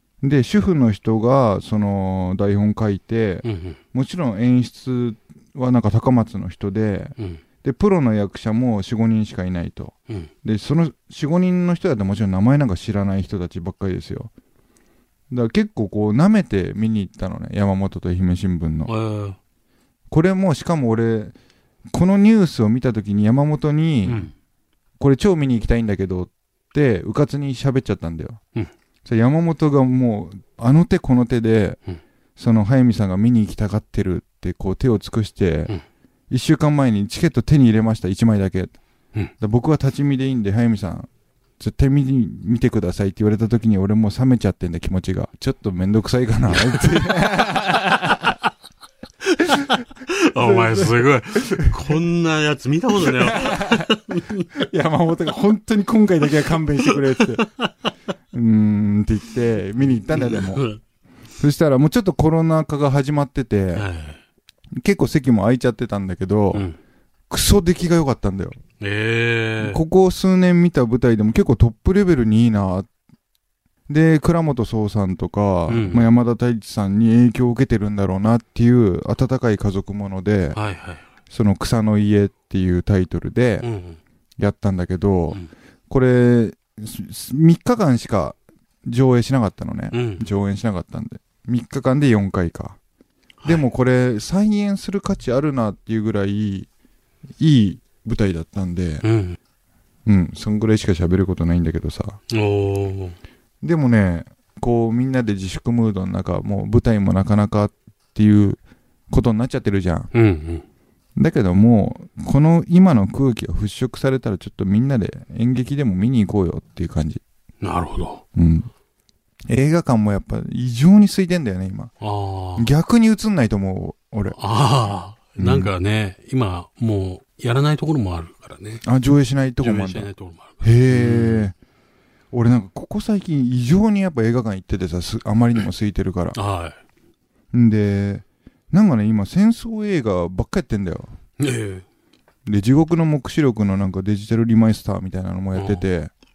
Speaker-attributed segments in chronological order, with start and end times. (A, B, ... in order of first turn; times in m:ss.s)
0:00.2-0:14.3 A
0:03.4-0:03.8 B
0:07.2-0:07.4 B
0:15.3-0:18.9 A
0:18.9-0:19.4 B
0:20.1-0:21.4 A
0:21.9-0:24.3 A
0:24.1-0:24.3 B
0:25.0-0:28.4 A
0:29.0-0:31.8 A
0:32.4-0:35.7 A
0:36.3-0:38.7 A
0:39.4-0:41.1 A
0:41.6-0:48.4 A
0:46.6-0:47.2 B
0:50.1-0:54.5 B
0:50.4-0:51.7 A
0:53.0-0:54.0 A
0:54.5-0:57.5 A
0:57.2-0:57.7 B
0:58.3-1:00.7 A
1:00.1-1:00.8 B
1:01.4-1:03.9 A
1:03.8-1:04.2 B
1:04.8-1:06.7 A
1:06.5-1:06.8 B
1:07.3-1:08.6 A
1:08.8-1:09.8 B
1:09.6-1:12.9 A
1:13.9-1:20.6 A
1:15.7-1:16.1 B
1:20.5-1:21.1 B
1:21.3-1:23.7 A
1:23.6-1:24.0 B
1:24.4-1:32.8 A
1:29.9-1:30.3 B
1:33.4-1:36.7 A
1:37.4-1:39.0 A
1:39.0-1:39.4 B
1:40.1-1:42.2 A
1:42.3-1:43.2 B
1:43.6-1:48.6 A
1:49.1-1:50.1 A
1:50.1-1:50.6 B
1:51.2-1:57.2 A
1:57.6-1:58.2 B
1:58.4-1:58.7 A
1:59.5-2:01.9 A
2:02.0-2:02.7 B
2:02.6-2:04.4 A
2:04.4-2:08.8 B
2:05.4-2:05.7 A
2:08.8-2:11.5 A
2:09.6-2:11.5 B
2:12.3-2:16.4 A
2:16.4-2:16.8 B
2:17.5-2:21.1 A
2:21.4-2:21.8 B
2:22.5-2:26.1 A
2:25.6-2:25.9 B